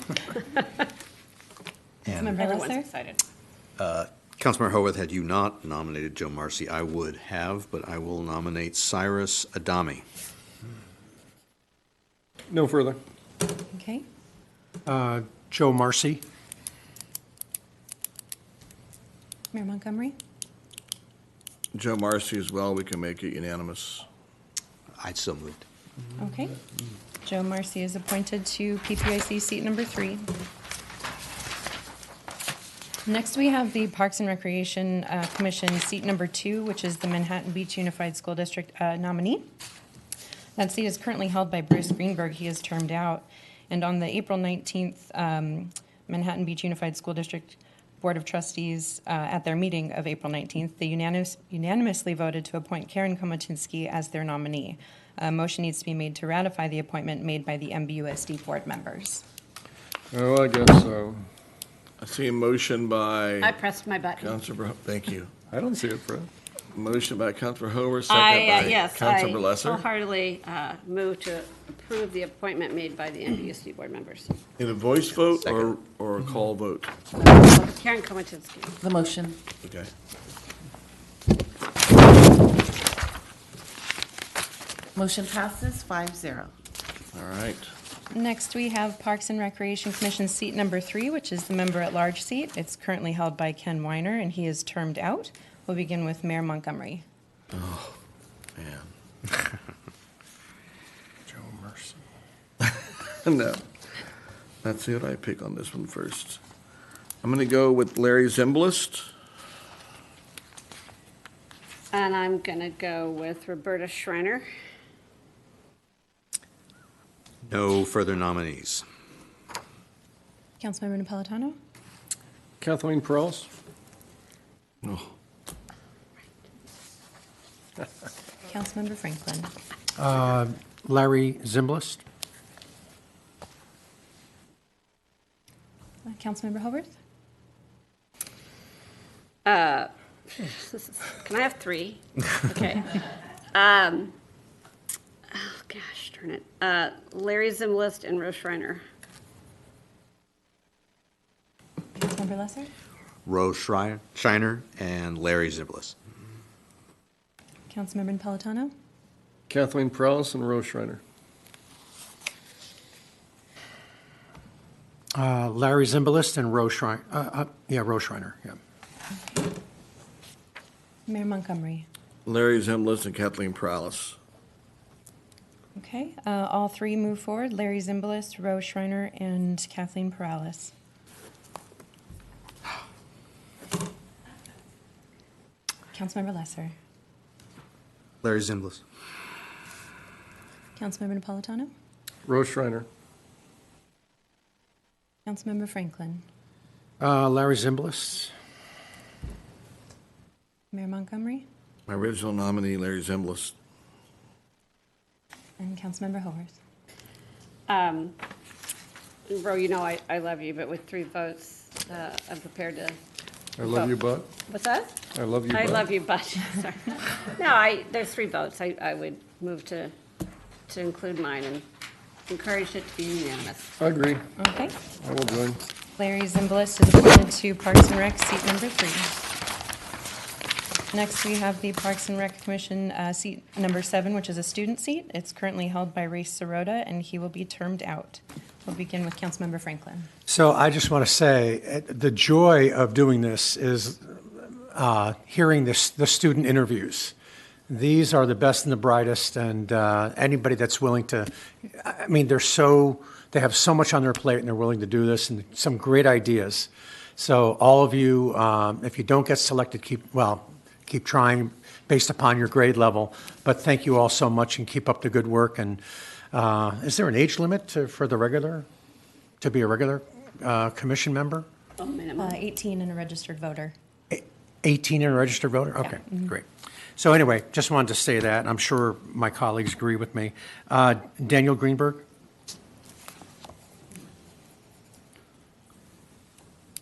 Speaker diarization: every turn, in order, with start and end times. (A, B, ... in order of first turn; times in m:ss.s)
0:02.0-0:02.4 A
0:02.2-0:02.8 B
0:02.3-0:03.2 C
0:03.8-0:10.0 A
0:12.5-0:13.0 D
0:13.7-0:14.0 B
0:14.8-0:16.2 E
0:19.5-0:20.2 B
0:21.7-0:24.0 F
0:25.0-0:25.6 A
0:26.2-0:26.5 B
0:27.2-0:30.2 B
0:33.0-0:38.1 B
0:40.6-0:43.0 B
0:43.7-0:45.4 B
0:46.1-0:47.1 B
0:48.0-0:49.2 B
0:49.9-0:59.2 B
1:00.1-1:01.2 D
1:02.0-1:03.6 F
1:03.4-1:04.4 C
1:04.2-1:05.3 F
1:05.5-1:06.3 D
1:06.7-1:09.8 F
1:08.1-1:14.3 C
1:14.6-1:16.9 F
1:17.6-1:18.8 C
1:18.8-1:19.3 G
1:19.6-1:19.9 F
1:25.0-1:26.5 G
1:27.1-1:27.7 F
1:28.1-1:37.0 B
1:37.5-1:38.0 F
1:38.6-1:38.9 F
1:41.3-1:42.0 E
1:42.6-1:43.6 F
1:44.6-1:46.4 F
1:47.2-1:49.1 F
1:51.9-1:54.4 C
1:57.5-1:58.8 A
2:00.6-2:01.6 B
2:02.6-2:03.5 D
2:04.8-2:05.1 F
2:08.5-2:09.5 B
2:10.0-2:12.0 E
2:16.1-2:16.9 B
2:19.4-2:23.0 C
2:23.5-2:24.1 C
2:25.3-2:28.8 C
2:32.0-2:32.7 B
2:33.2-2:35.9 A
2:37.7-2:38.7 B
2:39.5-2:41.0 D
2:45.1-2:48.6 E
2:51.1-2:51.8 B
2:52.2-2:54.2 F
2:55.8-3:00.7 B
3:05.9-3:06.7 B
3:08.2-3:08.8 A
3:10.8-3:11.7 B
3:12.2-3:12.9 D
3:15.2-3:16.2 B
3:17.0-3:18.3 E
3:20.7-3:21.4 B
3:21.9-3:23.5 F
3:25.6-3:26.6 B
3:27.7-3:28.2 C
3:29.3-3:33.0 C
3:33.6-3:34.3 D
3:33.6-3:35.0 C
3:35.1-3:35.9 D
3:35.5-3:39.9 C
3:40.7-3:41.6 C
3:42.3-3:43.7 C
3:43.8-3:44.2 D
3:44.4-3:44.8 B
3:44.9-3:45.6 D
3:46.0-3:49.2 B
3:50.9-3:57.8 B
3:58.7-3:59.0 B
4:00.3-4:07.1 E
4:07.7-4:28.7 E
4:29.4-4:31.5 E
4:31.8-4:32.4 C
4:32.2-4:33.7 B
4:34.1-4:42.0 E